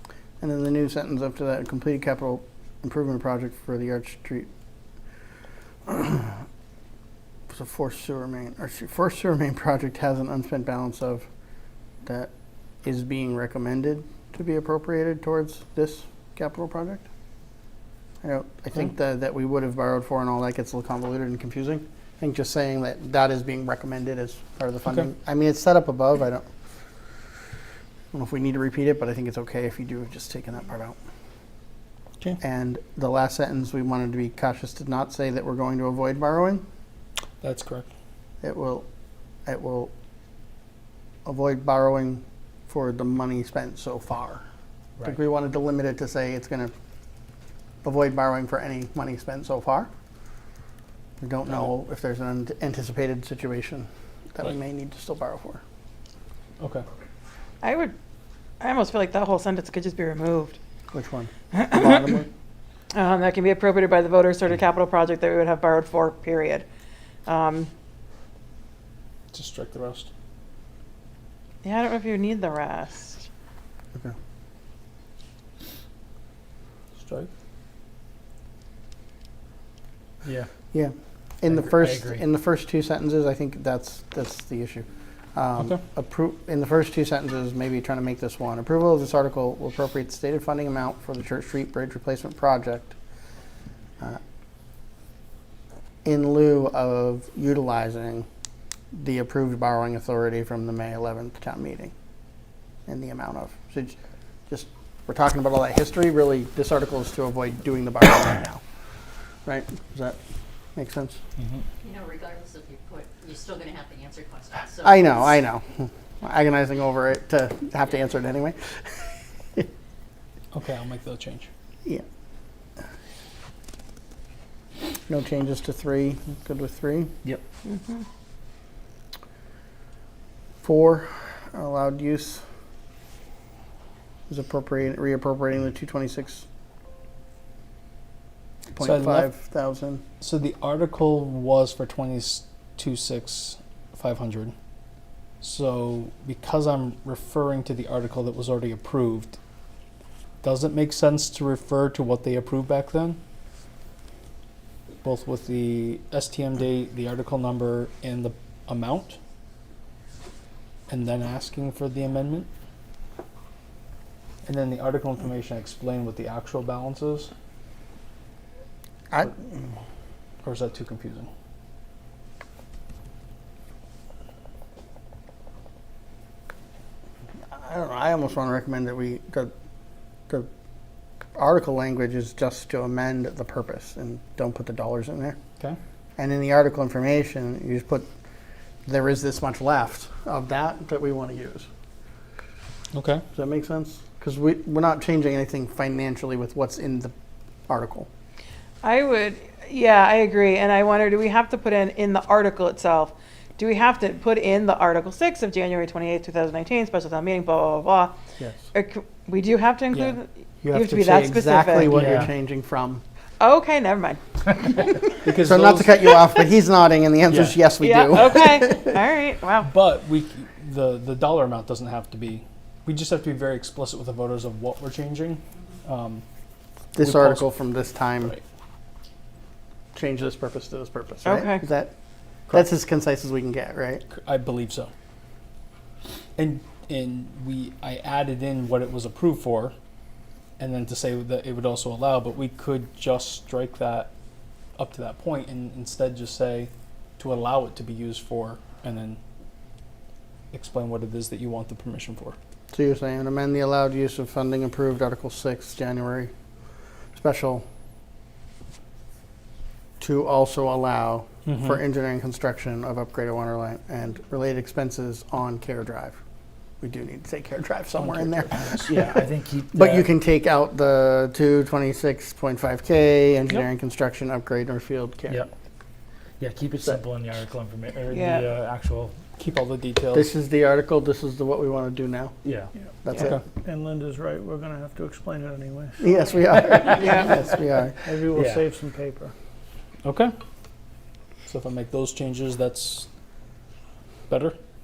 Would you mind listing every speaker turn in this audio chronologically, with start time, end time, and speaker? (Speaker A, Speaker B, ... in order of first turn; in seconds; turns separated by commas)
Speaker A: 0.4-4.5, Speaker A: 5.9-6.4, Speaker A: 7.5-11.3, Speaker A: 12.1-12.3, Speaker A: 12.8-17.1, Speaker A: 18.2-26.5, Speaker A: 28.1-31.0, Speaker A: 32.4-36.6, Speaker B: 37.4-37.9, Speaker A: 38.4-38.9, Speaker A: 39.5-39.9, Speaker A: 41.3-44.4, Speaker A: 45.0-46.7, Speaker A: 47.8-49.9, Speaker A: 51.2-55.6, Speaker B: 56.6-56.9, Speaker C: 57.6-58.0, Speaker C: 58.6-60.6, Speaker A: 60.9-62.3, Speaker C: 61.5-62.0, Speaker C: 62.9-66.7, Speaker C: 67.3-67.7, Speaker B: 69.3-70.1, Speaker C: 71.6-73.3, Speaker B: 77.0-77.3, Speaker D: 80.2-80.5, Speaker A: 80.7-92.9, Speaker D: 81.5-82.2, Speaker A: 96.0-98.3, Speaker A: 98.9-101.9, Speaker A: 102.9-104.0, Speaker A: 104.5-108.6, Speaker A: 109.5-110.2, Speaker A: 110.8-111.2, Speaker E: 111.8-115.2, Speaker A: 114.8-119.7, Speaker B: 120.5-121.5, Speaker A: 125.1-127.1, Speaker C: 127.7-128.0, Speaker A: 130.6-132.4, Speaker A: 134.3-136.5, Speaker A: 138.7-140.0, Speaker B: 138.8-139.3, Speaker B: 140.2-144.5, Speaker B: 145.4-149.4, Speaker B: 150.4-153.2, Speaker B: 155.0-159.2, Speaker B: 160.9-162.5, Speaker B: 164.5-167.3, Speaker A: 169.1-169.6, Speaker B: 170.4-171.3, Speaker A: 177.5-179.5, Speaker A: 181.4-185.4, Speaker A: 186.2-188.1, Speaker A: 188.8-191.7, Speaker B: 192.9-193.2, Speaker A: 193.3-197.1, Speaker A: 197.7-198.1, Speaker C: 198.8-208.1, Speaker C: 208.7-212.0, Speaker A: 210.6-213.0, Speaker D: 211.9-212.3, Speaker C: 213.4-215.1, Speaker B: 215.2-216.1, Speaker A: 215.4-218.9, Speaker D: 217.3-217.6, Speaker C: 217.8-219.7, Speaker B: 219.6-226.2, Speaker A: 226.9-228.3, Speaker B: 227.0-227.5, Speaker A: 229.9-231.9, Speaker C: 231.2-231.6, Speaker A: 232.5-234.0, Speaker B: 234.1-234.9, Speaker B: 236.4-239.8, Speaker B: 240.6-244.1, Speaker B: 244.8-249.2, Speaker B: 250.5-252.4, Speaker A: 252.7-256.3, Speaker A: 257.1-257.6, Speaker A: 260.0-266.2, Speaker B: 261.5-261.8, Speaker A: 266.8-275.5, Speaker B: 268.0-269.1, Speaker D: 268.9-270.1, Speaker D: 276.4-279.2, Speaker C: 278.1-278.4, Speaker B: 279.4-280.3, Speaker A: 280.1-282.3, Speaker D: 282.4-282.7, Speaker A: 283.0-283.4, Speaker F: 283.6-286.0, Speaker A: 286.0-288.0, Speaker C: 286.9-287.3, Speaker F: 288.0-289.3, Speaker D: 288.3-288.7, Speaker B: 290.0-290.3, Speaker B: 291.5-293.1, Speaker B: 294.3-294.6